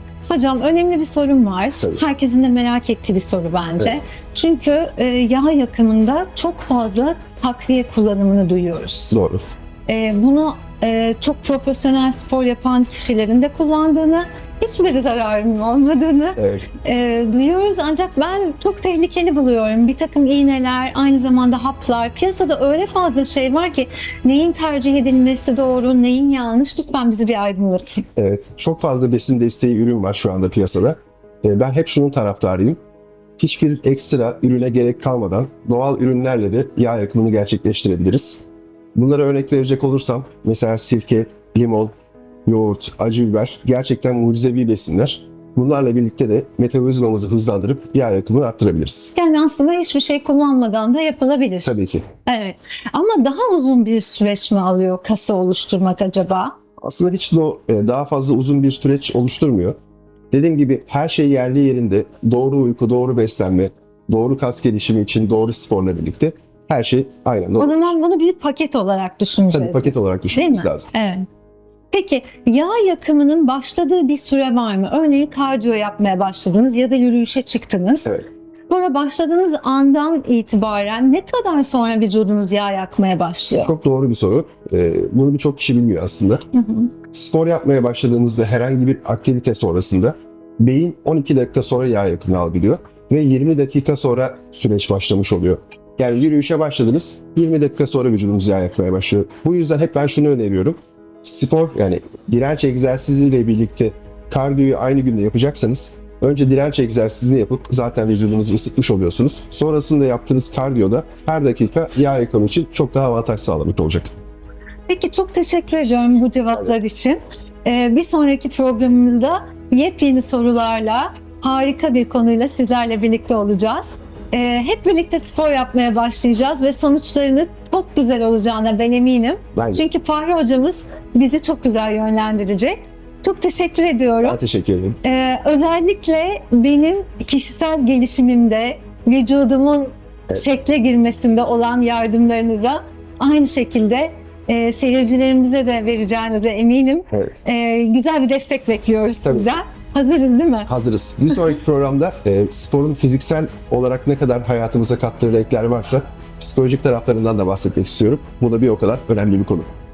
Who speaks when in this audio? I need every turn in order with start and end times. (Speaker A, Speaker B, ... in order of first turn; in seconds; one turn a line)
Speaker A: 0.2-9.2
Speaker B: 9.1-9.4
Speaker A: 9.9-28.1
Speaker B: 16.4-16.7
Speaker B: 28.2-32.8
Speaker B: 33.4-41.9
Speaker B: 42.5-49.1
Speaker A: 49.1-56.6
Speaker B: 51.6-52.1
Speaker B: 56.8-59.8
Speaker B: 60.3-67.9
Speaker A: 67.6-71.3
Speaker B: 69.5-70.9
Speaker A: 71.9-83.7
Speaker B: 83.6-86.4
Speaker A: 86.5-86.9
Speaker B: 87.1-114.1
Speaker A: 114.9-134.4
Speaker B: 129.6-129.8
Speaker B: 134.2-135.0
Speaker A: 135.0-150.7
Speaker B: 147.1-147.4
Speaker B: 149.2-149.6
Speaker B: 150.7-159.7